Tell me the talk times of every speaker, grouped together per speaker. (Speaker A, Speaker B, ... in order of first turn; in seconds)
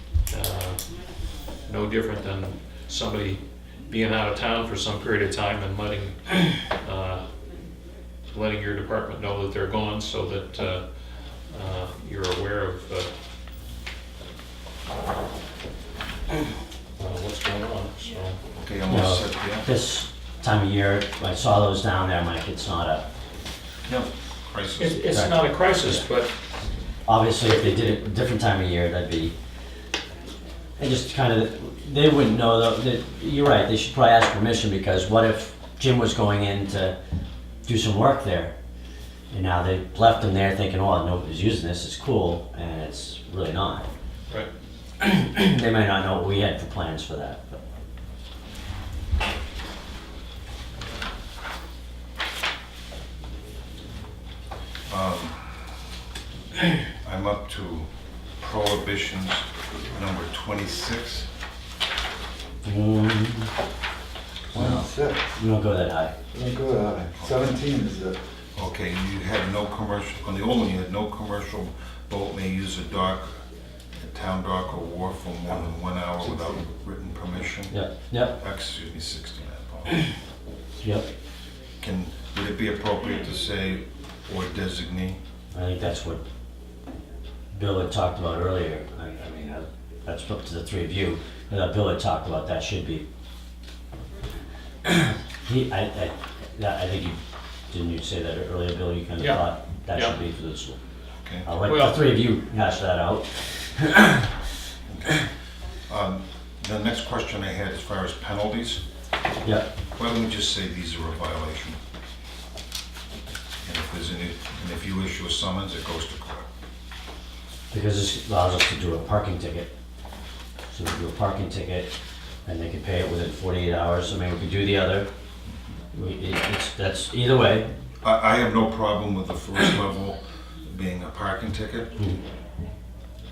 Speaker A: 0.3-0.8, 1.6-7.2, 8.3-10.8, 11.5-13.1, 17.0-18.4, 24.8-26.3, 99.2-100.2, 101.7-102.0
Speaker B: 18.5-19.6, 23.9-25.0, 54.9-55.6, 57.0-57.9, 58.4-61.3, 68.5-73.3, 74.0-77.7, 78.4-80.0, 81.8-85.2, 101.2-101.5, 104.9-105.1, 105.9-108.8, 109.9-111.8, 113.6-116.5, 128.0-131.9
Speaker C: 18.9-23.1, 25.1-26.0, 27.1-29.3, 30.8-37.0, 37.6-38.5, 39.3-43.9, 45.0-47.6, 62.6-63.5, 64.5-66.1, 77.7-78.4, 80.8-81.1, 85.5-86.2, 87.5-93.0, 95.4-97.2, 97.7-100.8, 101.4-104.3, 109.4-109.7, 117.7-119.7, 120.7-121.9, 122.4-125.1, 125.9-127.7, 132.0-132.2
Speaker D: 64.5-65.3, 66.3-68.2, 76.2-76.6